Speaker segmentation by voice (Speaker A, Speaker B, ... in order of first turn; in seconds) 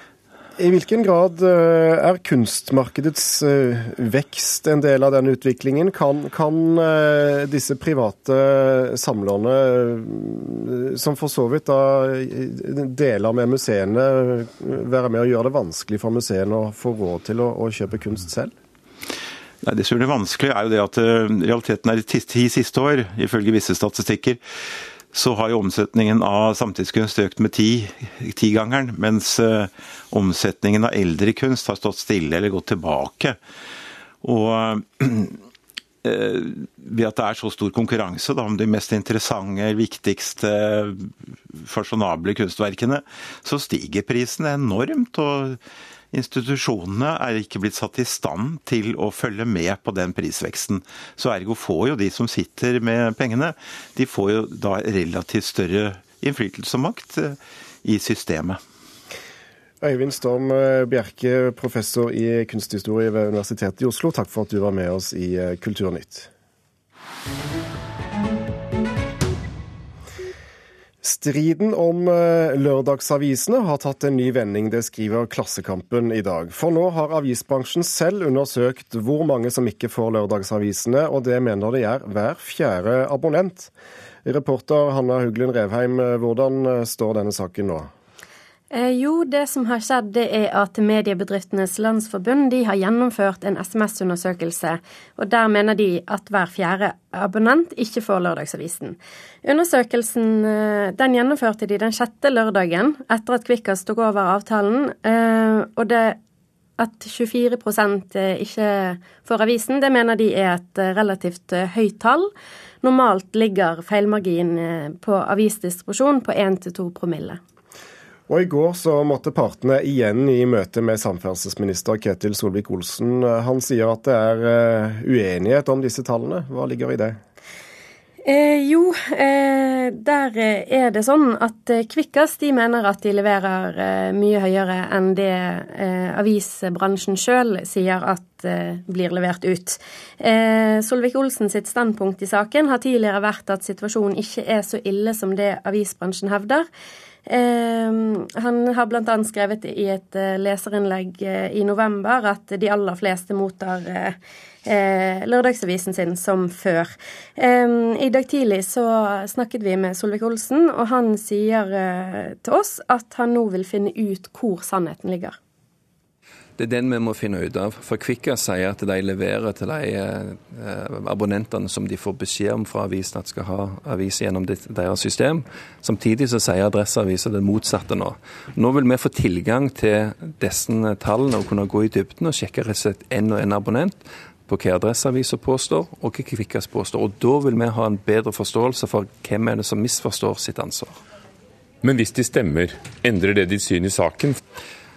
Speaker A: 0.6-18.5, 59.8-66.3, 71.0-83.7, 84.2-87.9, 118.3-127.2
Speaker B: 19.6-24.4, 25.1-33.4, 34.2-35.4, 36.0-45.6, 46.1-58.6
Speaker C: 88.7-106.2, 106.8-112.3, 112.8-117.4, 128.2-146.7, 147.3-165.4
Speaker D: 166.6-191.0
Speaker E: 191.8-194.4